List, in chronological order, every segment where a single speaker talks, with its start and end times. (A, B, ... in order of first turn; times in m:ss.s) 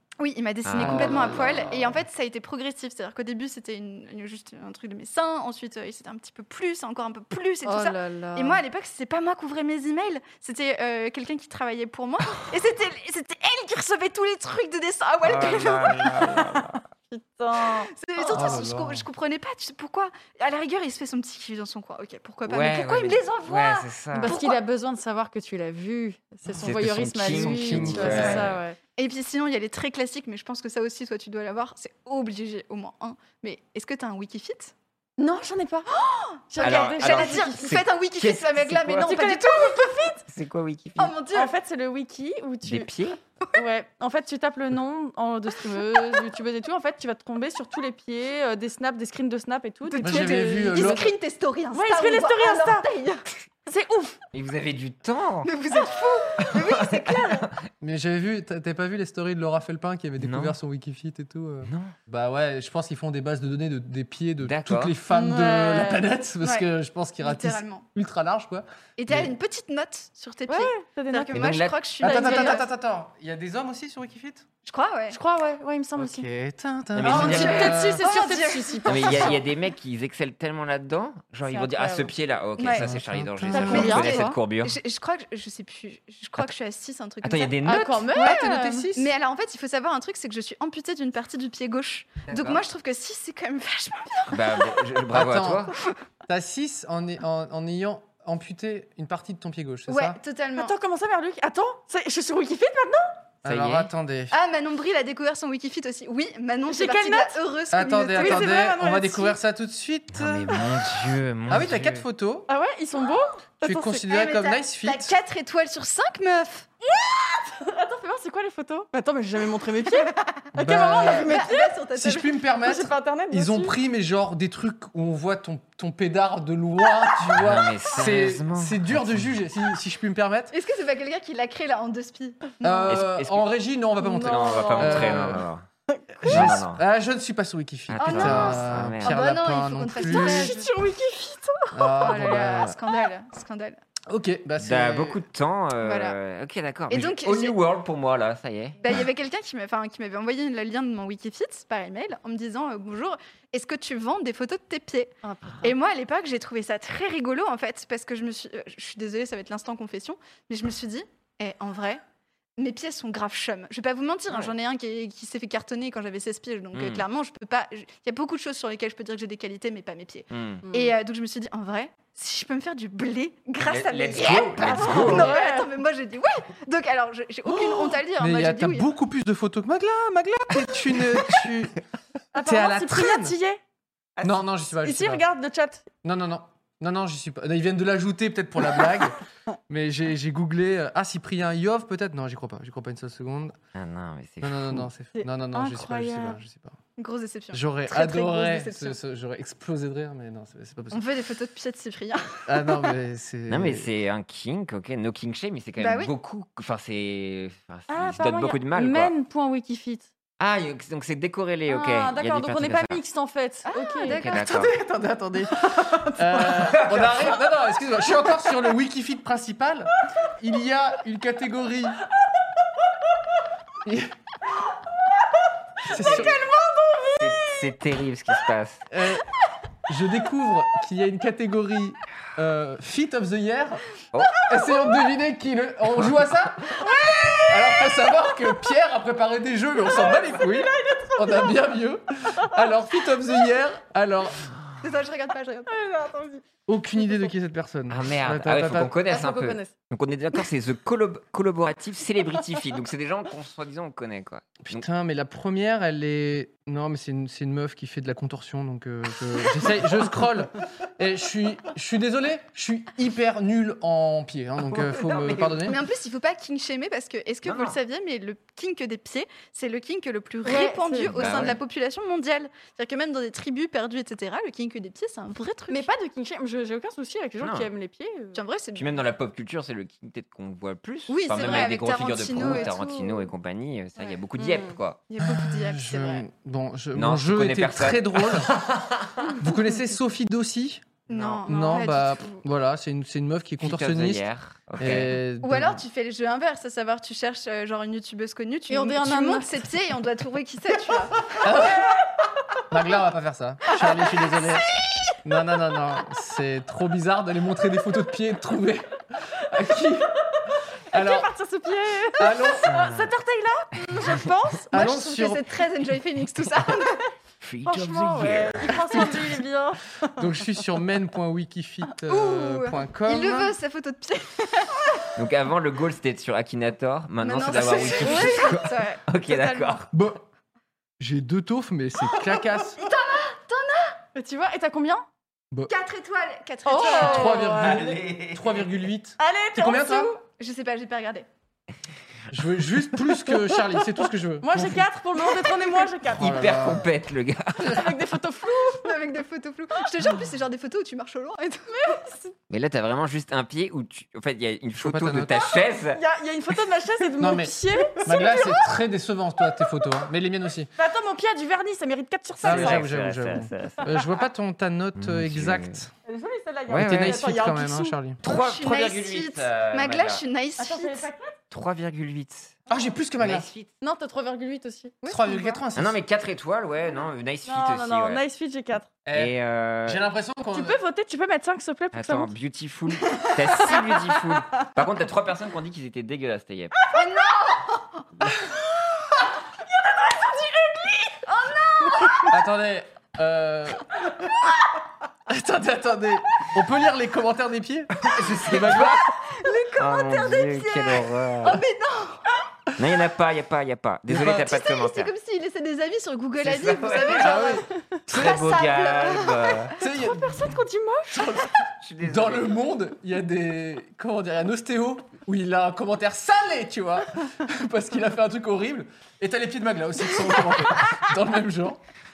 0:00.2-0:16.4 A
0:00.6-0:01.8 B
0:00.8-0:01.9 C
0:07.6-0:08.6 D
0:15.2-0:16.8 B
0:16.2-0:17.9 D
0:17.9-0:24.6 A
0:18.3-0:19.1 C
0:22.4-0:24.4 B
0:24.1-0:28.8 D
0:26.5-0:28.6 C
0:26.6-0:28.5 B
0:29.0-0:34.7 A
0:35.2-0:35.9 D
0:35.9-0:40.2 A
0:36.5-0:37.8 D
0:36.6-0:39.2 B
0:39.0-0:40.2 D
0:40.3-0:41.1 B
0:41.0-0:41.5 A
0:41.3-0:42.9 D
0:42.6-0:43.2 B
0:43.5-0:51.1 D
0:49.9-0:53.2 A
0:50.0-0:51.1 C
0:51.7-0:52.8 D
0:53.7-0:54.2 D
0:54.3-0:55.5 B
0:55.4-0:57.4 A
0:56.4-0:57.5 B
0:57.8-1:09.3 C
1:00.2-1:00.6 B
1:01.6-1:01.9 B
1:04.4-1:04.9 B
1:05.1-1:06.0 D
1:06.4-1:06.7 A
1:07.2-1:07.8 A
1:09.0-1:12.6 A
1:10.5-1:11.4 D
1:11.3-1:12.3 B
1:12.0-1:14.5 C
1:14.6-1:15.2 A
1:15.1-1:16.2 D
1:16.0-1:18.1 C
1:16.9-1:17.8 B
1:17.0-1:19.3 D
1:17.1-1:19.2 A
1:18.9-1:24.8 B
1:21.5-1:22.1 D
1:22.6-1:22.9 A
1:22.7-1:24.0 C
1:23.5-1:24.3 D
1:23.6-1:34.8 A
1:27.2-1:28.1 B
1:27.6-1:29.0 D
1:32.3-1:32.6 B
1:34.3-1:35.7 B
1:35.1-1:35.7 C
1:36.2-1:40.2 C
1:39.9-1:40.7 A
1:40.6-1:43.1 D
1:43.4-1:44.4 C
1:43.4-1:43.9 B
1:44.3-1:48.8 A
1:46.7-1:47.4 D
1:47.7-1:50.7 C
1:48.2-1:49.4 D
1:50.1-1:52.0 B
1:51.5-1:52.5 C
1:52.5-1:54.0 D
1:53.6-1:55.2 C
1:54.0-1:56.7 A
1:56.8-2:01.7 D
2:00.0-2:02.3 A
2:00.5-2:01.4 C
2:02.0-2:10.5 C
2:02.6-2:03.7 D
2:07.4-2:09.3 B
2:10.5-2:12.9 A
2:12.6-2:15.4 C
2:12.9-2:13.4 B
2:14.0-2:15.3 D
2:14.2-2:15.6 B
2:15.9-2:16.4 D
2:16.2-2:20.6 C
2:16.2-2:16.8 B
2:17.9-2:19.2 B
2:18.0-2:20.7 A
2:20.0-2:22.1 D
2:21.7-2:22.8 C
2:22.0-2:23.8 A
2:24.1-2:25.2 C
2:24.6-2:28.8 B
2:25.8-2:26.1 A
2:26.9-2:27.6 A
2:28.8-2:42.0 A
2:35.2-2:35.7 D
2:42.6-2:58.9 A
2:46.7-2:47.0 B
2:50.3-2:50.6 B
2:50.6-2:50.9 D
2:53.6-2:55.4 B
2:54.6-2:55.7 D
2:57.4-3:01.8 C
3:02.3-3:03.6 D
3:02.4-3:03.4 C
3:04.2-3:04.4 B
3:04.2-3:05.2 C
3:04.8-3:05.8 D
3:06.0-3:09.2 C
3:09.7-3:13.6 C
3:13.7-3:14.9 B
3:14.4-3:16.8 C
3:15.1-3:16.4 D
3:17.0-3:19.0 A
3:17.5-3:21.0 C
3:20.9-3:22.9 A
3:22.4-3:23.9 C
3:23.5-3:29.1 B
3:25.8-3:26.1 A
3:27.9-3:30.1 D
3:30.4-3:33.0 B
3:31.7-3:34.2 D
3:33.7-3:34.5 A
3:34.1-3:34.7 B
3:34.3-3:42.0 C
3:35.6-3:36.5 D
3:36.5-3:37.3 B
3:43.8-3:44.1 C
3:45.8-3:46.4 C
3:46.0-3:46.4 B
3:46.5-3:47.2 D
3:47.2-3:48.9 B
3:48.9-3:49.2 C
3:49.9-3:53.8 C
3:54.1-3:54.5 B
3:54.4-3:56.8 C
3:56.8-3:57.9 D
3:57.5-4:04.5 C
3:59.9-4:01.5 D
4:04.8-4:05.7 A
4:05.7-4:06.4 D
4:06.7-4:08.9 C
4:07.0-4:07.3 D
4:07.9-4:14.8 B
4:09.1-4:09.7 D
4:14.6-4:25.8 C
4:24.6-4:25.7 B
4:25.6-4:35.9 A
4:27.4-4:27.8 B
4:30.4-4:31.4 D
4:31.1-4:31.6 B
4:35.7-4:38.4 D
4:37.4-4:37.7 B
4:38.3-4:39.0 A
4:38.7-4:45.0 B
4:41.1-4:43.3 A
4:44.4-4:44.7 D
4:45.1-4:46.2 A
4:45.2-4:48.6 C
4:46.9-4:49.2 B
4:49.4-4:50.9 C
4:51.1-4:52.4 A
4:51.1-4:51.4 B
4:51.4-4:54.2 C
4:51.6-4:51.8 D
4:53.6-4:55.2 B
4:54.8-4:55.8 C
4:55.4-5:01.4 A
4:58.7-4:59.6 D
5:01.4-5:01.9 C
5:02.7-5:04.7 C
5:05.2-5:10.2 C
5:10.9-5:11.3 C
5:10.9-5:14.7 D
5:12.1-5:12.8 C
5:12.7-5:13.0 B
5:14.7-5:17.0 A
5:14.7-5:15.5 C
5:17.4-5:19.2 B
5:17.6-5:20.2 D
5:20.2-5:23.6 C
5:22.1-5:25.0 A
5:25.2-5:29.9 B
5:27.2-5:29.8 A
5:28.0-5:28.5 D
5:29.9-5:30.2 C
5:31.0-5:32.8 C
5:32.7-5:34.0 A
5:34.1-5:35.0 D
5:35.7-5:37.5 A
5:36.6-5:37.8 D
5:36.7-5:40.1 C
5:37.5-5:38.7 B
5:39.2-5:40.2 D
5:40.2-5:41.3 A
5:42.3-5:44.9 C
5:43.3-5:43.8 D
5:44.4-5:46.5 D
5:46.0-5:46.9 C
5:46.2-5:48.0 B
5:47.6-5:48.9 D
5:48.5-5:52.0 A
5:51.7-5:52.3 D
5:52.5-5:56.0 B
5:54.8-5:55.5 C
5:55.9-5:58.4 D
5:57.2-6:00.7 C
5:58.0-5:58.6 A
6:00.8-6:02.8 D
6:02.4-6:05.9 C
6:02.4-6:03.9 B
6:05.0-6:05.8 B
6:06.1-6:08.0 D
6:06.7-6:07.2 B
6:06.7-6:08.2 C
6:08.2-6:10.2 B
6:08.2-6:11.1 A
6:10.6-6:11.4 D
6:11.5-6:12.6 B
6:12.7-6:13.5 C
6:13.2-6:13.7 B
6:13.8-6:14.9 D
6:15.0-6:15.6 A
6:15.0-6:16.0 C
6:15.8-6:18.2 B
6:17.4-6:18.9 D
6:19.0-6:19.3 C
6:19.1-6:20.0 B
6:19.8-6:20.8 C
6:20.5-6:22.3 D
6:21.9-6:26.8 B
6:26.9-6:28.0 A
6:28.3-6:28.6 C
6:30.0-6:31.1 D
6:31.2-6:32.3 A
6:32.3-6:34.4 C
6:35.3-6:39.1 C
6:38.0-6:39.0 B
6:38.7-6:42.2 A
6:39.8-6:41.6 B
6:42.8-6:45.1 B
6:44.1-6:44.5 C
6:44.2-6:49.7 A
6:46.4-6:49.7 B
6:47.2-6:47.6 C
6:49.8-6:50.5 C
6:49.8-6:51.5 D
6:51.1-7:01.8 C
6:51.8-6:52.6 B